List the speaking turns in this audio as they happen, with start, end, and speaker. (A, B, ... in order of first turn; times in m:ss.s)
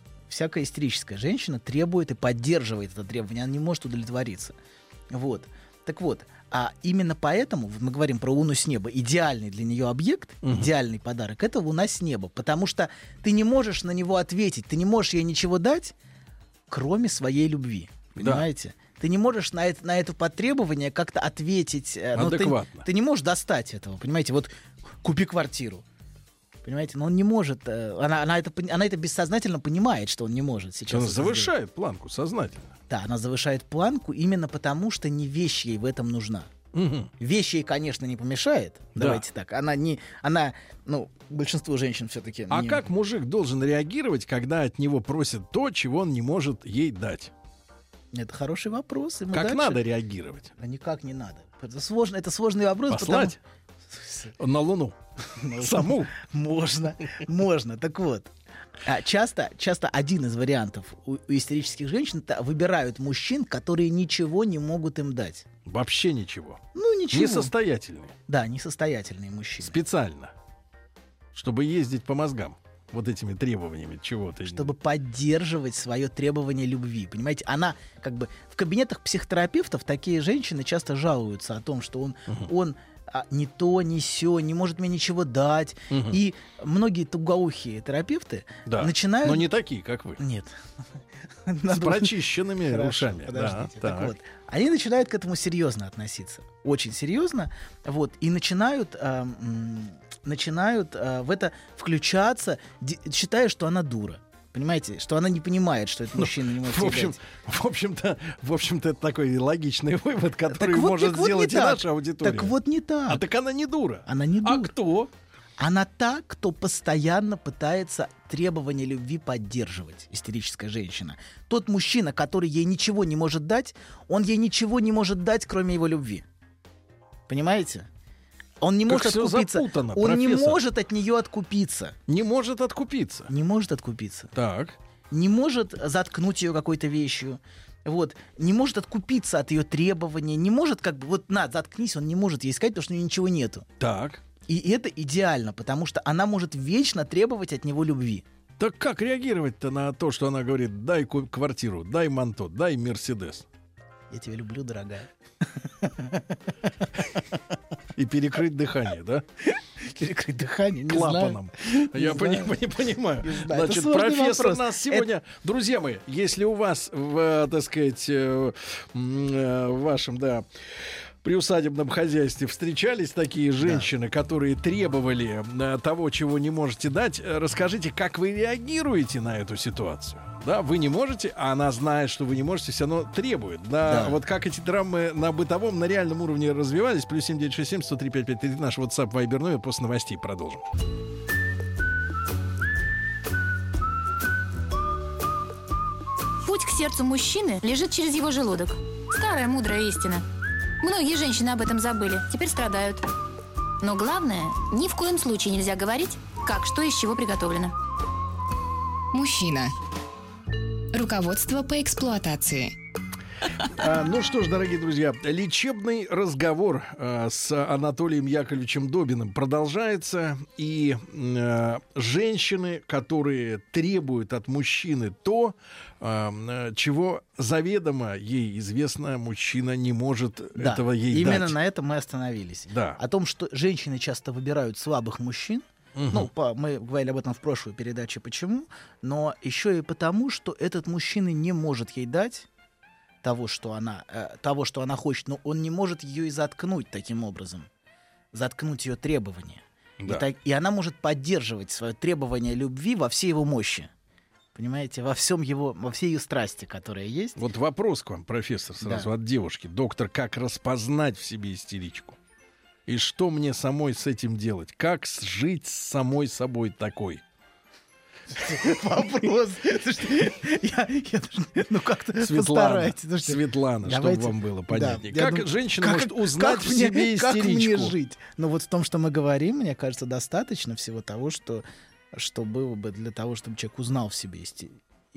0:00.3-0:04.6 A
0:05.1-0:15.9 A
0:10.4-0:10.7 B
0:16.7-0:24.5 A
0:18.2-0:18.5 B
0:22.1-0:22.9 B
0:25.0-0:25.8 A
0:26.6-0:31.5 A
0:30.9-0:32.7 B
0:32.9-0:36.5 A
0:36.7-0:37.1 B
0:37.2-0:42.8 A
0:39.0-0:39.2 B
0:42.5-0:47.3 B
0:48.1-0:49.8 A
0:49.3-0:50.5 B
0:50.6-0:53.4 A
0:52.9-0:53.4 B
0:53.9-0:54.3 A
0:54.4-0:55.0 B
0:55.4-0:58.3 A
0:55.5-0:56.1 B
0:58.8-1:05.4 A
1:05.7-1:08.2 B
1:06.7-1:07.5 A
1:08.3-1:09.8 A
1:09.6-1:10.3 B
1:11.3-1:14.7 B
1:14.4-1:29.5 A
1:25.9-1:26.2 B
1:28.7-1:30.2 B
1:30.2-1:30.6 A
1:31.5-1:47.2 A
1:31.7-1:34.1 B
1:46.2-1:52.6 B
1:50.5-1:53.2 A
1:53.1-1:55.1 B
1:54.1-1:54.7 A
1:55.6-2:06.2 A
2:07.3-2:07.9 A
2:08.6-2:12.0 A
2:08.9-2:10.6 B
2:12.1-2:13.3 B
2:13.3-2:14.3 A
2:14.3-2:14.8 B
2:15.1-2:23.7 A
2:23.8-2:24.2 B
2:24.5-2:28.2 A
2:28.6-2:33.5 B
2:34.1-2:36.4 A
2:38.0-2:39.2 B
2:39.8-2:42.6 A
2:40.9-3:10.6 B
2:43.2-2:45.1 A
2:53.6-2:53.9 A
3:03.8-3:04.2 A
3:16.4-3:20.2 C
3:20.8-3:23.1 C
3:23.8-3:27.8 C
3:29.1-3:29.7 D
3:30.9-3:32.7 D
3:33.7-3:51.6 B
3:50.6-4:02.5 A
3:52.7-3:53.0 B
3:56.0-3:56.3 B
4:03.2-4:07.7 A
4:08.3-4:13.9 A
4:10.0-4:10.3 B
4:14.6-4:17.4 A
4:17.4-4:22.2 B
4:18.8-4:19.1 A
4:22.9-4:27.2 B
4:28.4-4:44.8 A
4:32.2-4:38.0 B